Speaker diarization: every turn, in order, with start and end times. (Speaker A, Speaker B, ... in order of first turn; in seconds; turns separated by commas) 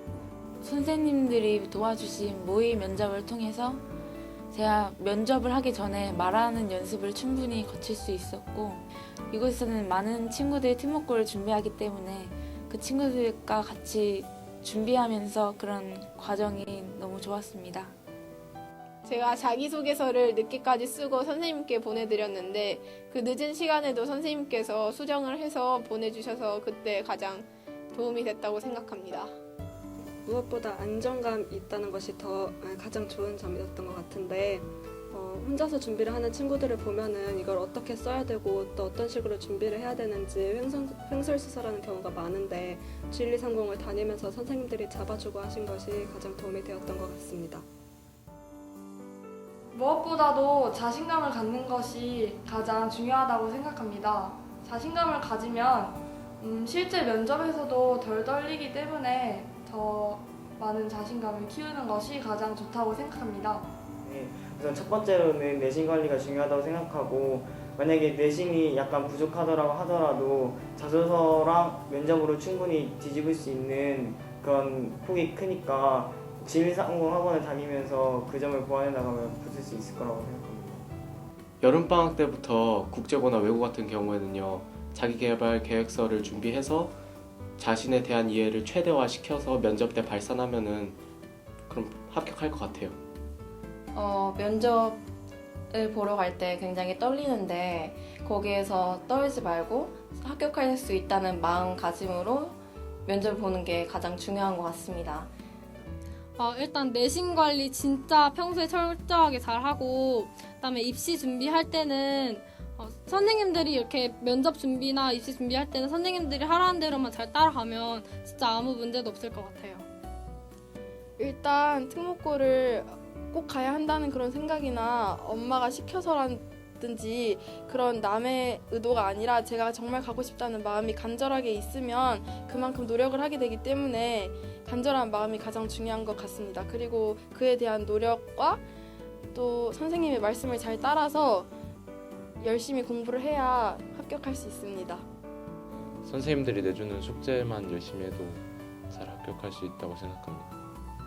Speaker A: 0.6-3.8, Speaker A: 4.5-17.9, Speaker B: 19.0-29.3, Speaker C: 30.2-47.6, Speaker D: 49.7-63.6, Speaker E: 64.0-80.9, Speaker F: 81.6-87.0, Speaker F: 87.6-91.0, Speaker F: 91.7-93.0, Speaker G: 94.0-95.0, Speaker G: 95.7-105.3, Speaker H: 106.4-119.8, Speaker I: 121.2-138.6, Speaker I: 139.3-141.5, Speaker I: 142.4-145.0, Speaker J: 145.7-150.5